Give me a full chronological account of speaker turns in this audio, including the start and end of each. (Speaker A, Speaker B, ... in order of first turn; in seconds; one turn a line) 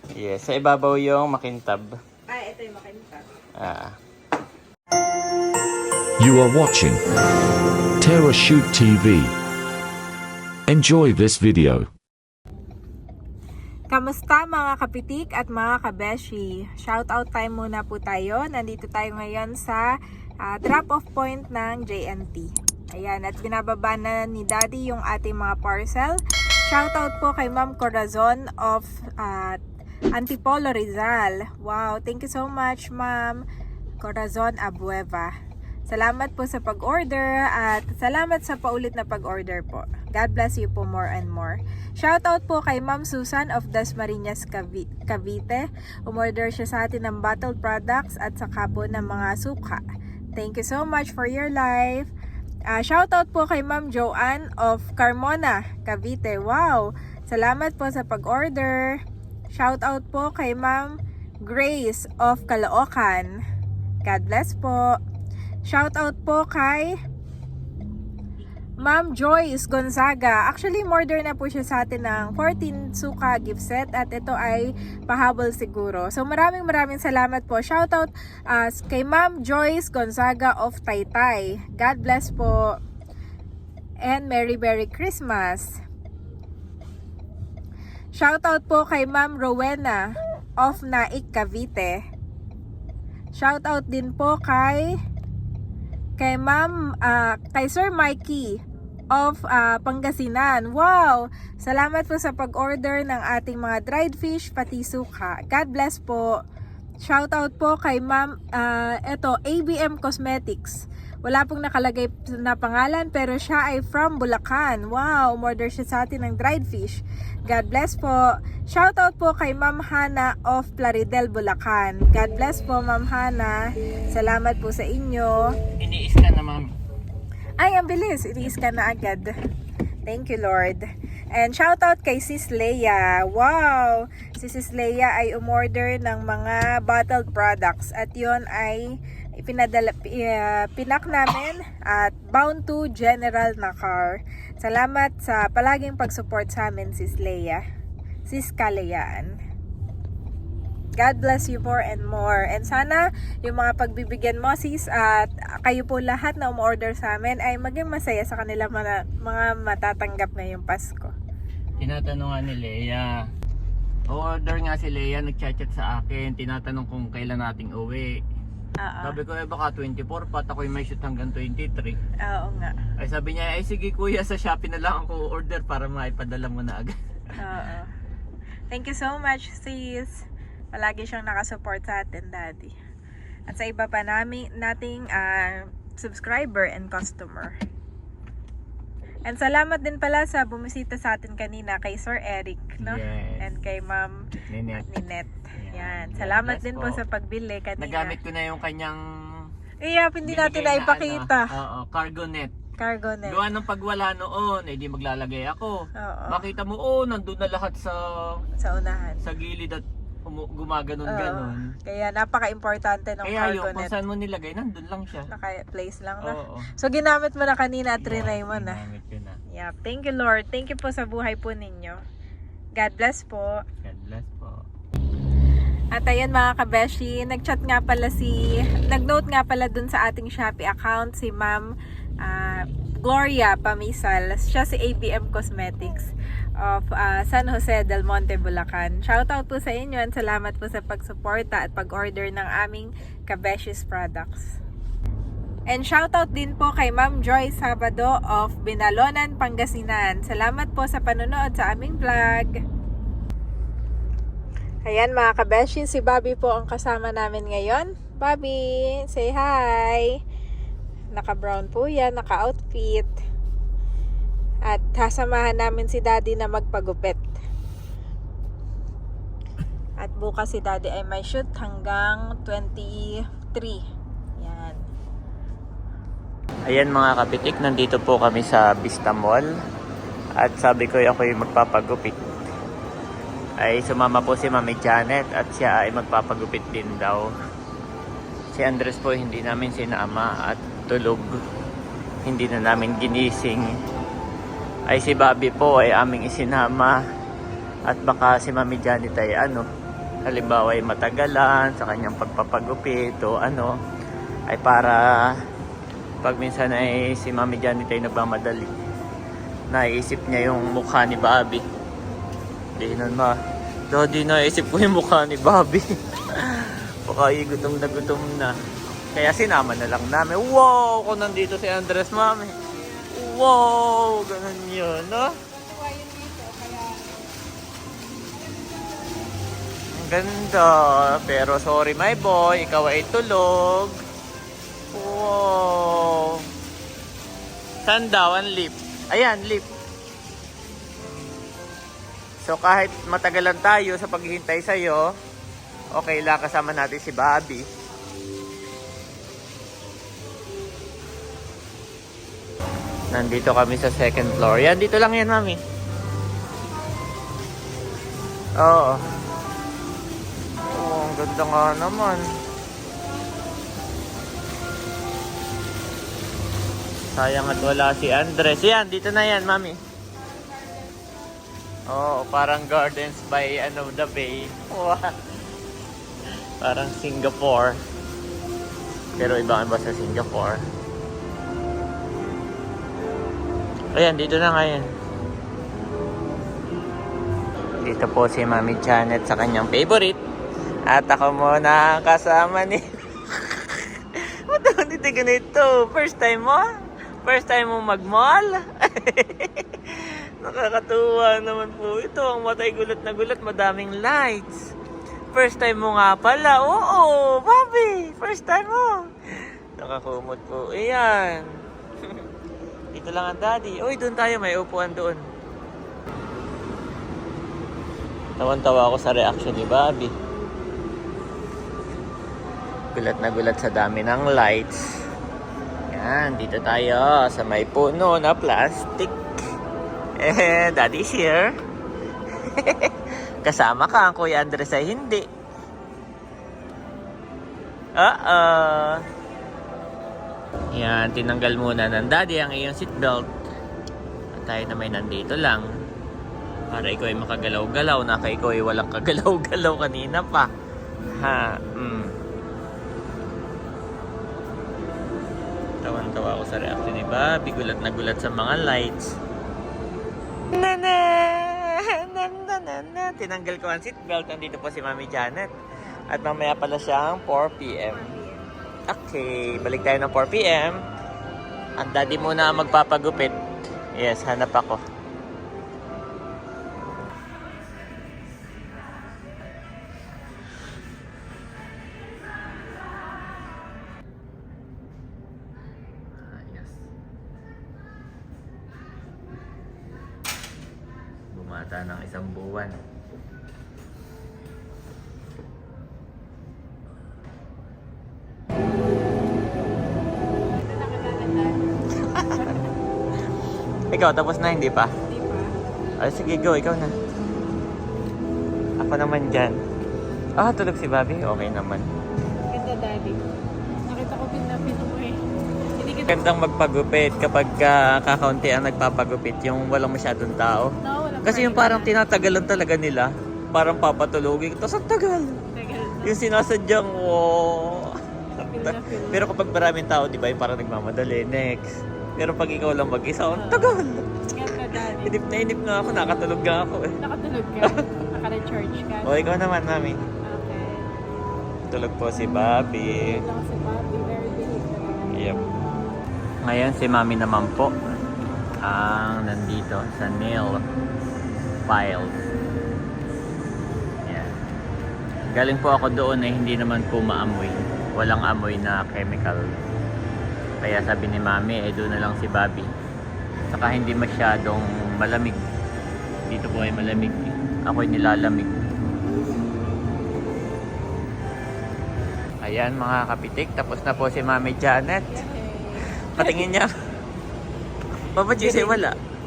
Speaker A: 0.2-1.9
Speaker B: 2.3-3.3
Speaker A: 3.6-3.9
Speaker C: 6.2-7.0
Speaker C: 8.0-9.3
Speaker C: 10.7-11.9
Speaker B: 13.9-19.9
Speaker B: 20.4-29.6
Speaker B: 30.1-33.4
Speaker B: 34.0-35.3
Speaker B: 35.9-49.8
Speaker B: 50.4-52.1
Speaker B: 52.7-59.0
Speaker B: 59.5-63.3
Speaker B: 64.0-65.0
Speaker B: 65.7-66.9
Speaker B: 68.8-82.8
Speaker B: 84.0-85.8
Speaker B: 88.2-90.0
Speaker B: 90.6-92.0
Speaker B: 93.3-94.9
Speaker B: 96.2-98.6
Speaker B: 99.1-106.3
Speaker B: 107.0-123.6
Speaker B: 124.1-125.5
Speaker A: 125.8-126.7
Speaker B: 127.6-129.3
Speaker B: 130.1-138.8
Speaker B: 139.4-147.6
Speaker B: 148.3-149.3
Speaker B: 151.0-161.1
Speaker A: 161.8-163.1
Speaker A: 164.1-168.2
Speaker B: 168.8-169.2
Speaker A: 169.0-172.0
Speaker B: 172.2-172.8
Speaker A: 173.0-177.3
Speaker B: 177.4-177.9
Speaker B: 178.7-182.7
Speaker B: 183.5-187.6
Speaker B: 189.2-194.2
Speaker A: 192.8-193.5
Speaker A: 194.5-194.8
Speaker B: 194.8-198.2
Speaker A: 195.6-197.0
Speaker A: 197.8-199.4
Speaker B: 199.8-201.5
Speaker A: 200.2-202.5
Speaker B: 202.8-203.4
Speaker A: 203.2-208.4
Speaker B: 205.9-206.4
Speaker B: 208.6-209.2
Speaker A: 209.2-211.7
Speaker B: 211.1-213.9
Speaker A: 213.2-215.3
Speaker B: 215.3-218.8
Speaker A: 216.2-216.7
Speaker A: 218.0-219.4
Speaker B: 219.5-222.0
Speaker B: 222.8-223.6
Speaker A: 223.8-224.6
Speaker B: 225.9-236.1
Speaker B: 236.6-244.5
Speaker B: 245.7-252.5
Speaker B: 254.8-260.1
Speaker B: 261.1-263.1
Speaker B: 264.7-267.2
Speaker B: 270.0-273.8
Speaker B: 274.4-274.8
Speaker A: 276.7-279.5
Speaker A: 280.4-282.2
Speaker A: 283.6-287.3
Speaker A: 288.5-291.4
Speaker A: 292.2-293.8
Speaker A: 294.9-297.0
Speaker A: 297.9-299.6
Speaker A: 300.2-303.7
Speaker A: 304.5-305.4
Speaker A: 306.2-308.7
Speaker A: 309.7-311.6
Speaker A: 312.8-313.4
Speaker A: 313.9-318.5
Speaker A: 319.1-322.5
Speaker B: 322.6-323.2
Speaker A: 323.1-325.4
Speaker B: 325.5-327.3
Speaker B: 328.3-329.4
Speaker A: 329.9-334.0
Speaker A: 334.9-336.4
Speaker A: 337.8-339.7
Speaker A: 342.4-345.1
Speaker A: 345.9-347.7
Speaker A: 353.1-355.6
Speaker A: 358.6-359.0
Speaker A: 360.6-362.2
Speaker B: 363.0-363.8
Speaker A: 367.1-369.8
Speaker B: 370.1-371.3
Speaker A: 371.9-375.1
Speaker A: 376.6-377.8
Speaker A: 379.2-380.6
Speaker A: 383.9-384.8
Speaker A: 387.8-390.2
Speaker A: 390.9-396.6
Speaker A: 397.2-404.7
Speaker A: 405.3-411.5
Speaker A: 412.9-415.2
Speaker A: 418.4-420.1
Speaker A: 422.9-424.8
Speaker A: 425.9-429.2
Speaker A: 430.2-431.5
Speaker A: 432.4-435.3
Speaker A: 438.0-439.0
Speaker A: 440.7-443.3
Speaker A: 444.4-445.6
Speaker A: 446.7-450.5
Speaker A: 451.2-452.1
Speaker A: 455.8-459.1
Speaker A: 460.5-465.5
Speaker A: 466.1-468.0
Speaker B: 467.9-468.4
Speaker A: 468.9-470.8
Speaker A: 471.8-473.4
Speaker A: 474.0-474.8
Speaker A: 486.2-486.8
Speaker A: 491.3-492.8
Speaker B: 500.5-502.6
Speaker A: 502.1-502.4
Speaker A: 503.9-504.9
Speaker B: 505.1-505.5
Speaker A: 506.0-506.9
Speaker A: 508.8-509.6
Speaker A: 510.4-511.9
Speaker B: 512.5-513.2
Speaker B: 513.9-515.2
Speaker B: 515.8-516.3
Speaker A: 516.1-520.7
Speaker B: 520.8-521.9
Speaker A: 521.2-525.4
Speaker B: 525.5-526.1
Speaker A: 526.0-534.2
Speaker B: 528.5-529.3
Speaker B: 533.3-535.2
Speaker A: 534.9-536.9
Speaker B: 537.0-539.2
Speaker A: 539.0-540.0
Speaker B: 540.2-540.9
Speaker A: 541.7-543.2
Speaker B: 542.9-545.3
Speaker A: 545.1-545.4
Speaker A: 546.4-547.7
Speaker A: 548.6-550.6
Speaker A: 551.7-552.2
Speaker A: 554.0-554.3
Speaker A: 555.3-559.5
Speaker A: 560.6-562.7
Speaker A: 563.5-565.4
Speaker A: 566.3-568.5
Speaker A: 572.4-575.2
Speaker B: 575.1-576.5
Speaker A: 576.0-576.7
Speaker A: 578.1-579.0
Speaker B: 578.4-578.8